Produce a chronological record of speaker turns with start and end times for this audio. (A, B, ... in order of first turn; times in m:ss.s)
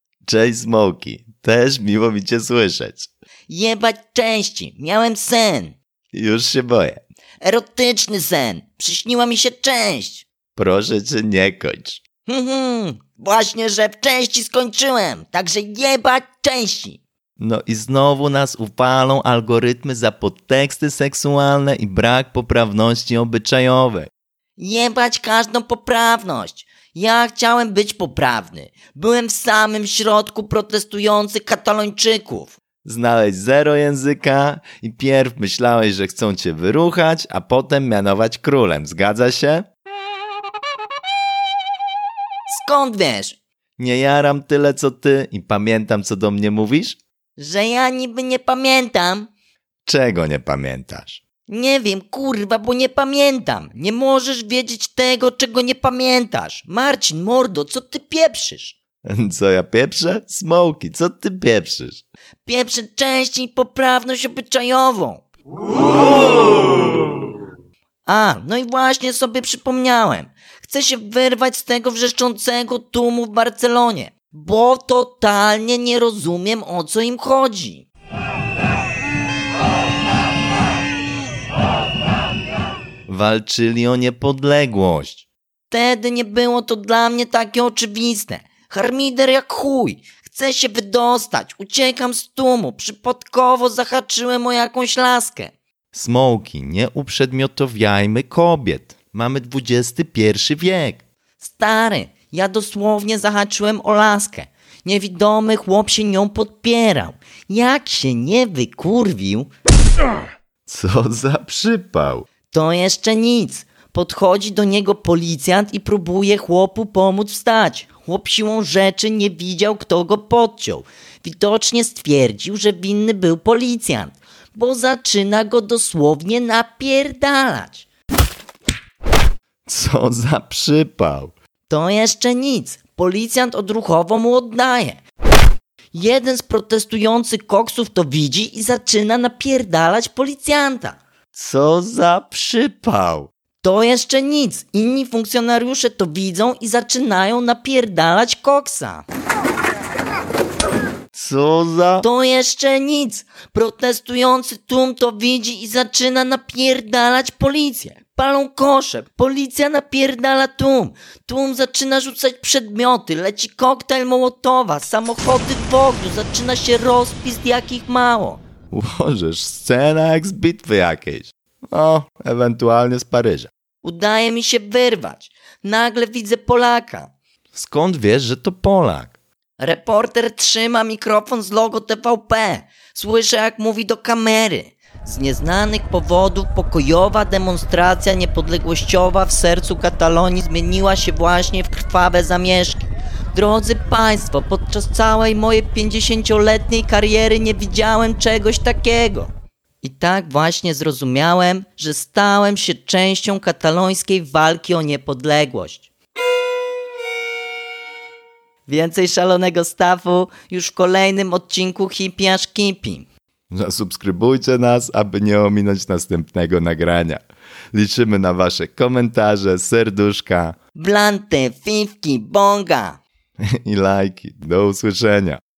0:00.2-0:03.1 A
0:03.5-0:05.8 B
0:06.1-0:07.0 A
0:07.4-0:10.3 B
0:10.5-0:12.0 A
0:12.2-0:17.0 B
0:17.4-0:24.1 A
0:24.6-0:32.6 B
0:32.8-0:39.7 A
0:42.5-0:43.4 B
0:43.8-0:47.0 A
0:47.4-0:49.3 B
0:49.8-0:51.2 A
0:51.5-0:58.8 B
0:59.0-1:02.0 A
1:02.4-1:05.2 B
1:08.0-1:17.9 B
1:23.1-1:25.2 A
1:25.7-1:35.5 B
1:35.9-1:41.0 A
1:41.4-1:49.5 B
1:50.6-1:52.3 A
1:52.5-2:07.9 B
2:09.6-2:11.3 A
2:11.7-2:15.0 B
2:15.9-2:21.0 B
2:21.3-2:23.3 A
2:23.6-2:29.0 B
2:31.1-2:32.0 A
2:32.0-2:48.4 B
2:48.7-2:53.5 A
2:53.8-2:57.1 B
2:57.5-2:59.1 A
2:59.6-3:19.3 B
3:19.8-3:25.9 B
3:28.6-3:33.0 B
3:33.5-3:37.2 A
3:37.7-3:40.5 A
3:40.7-3:43.0 B
3:43.4-3:45.4 A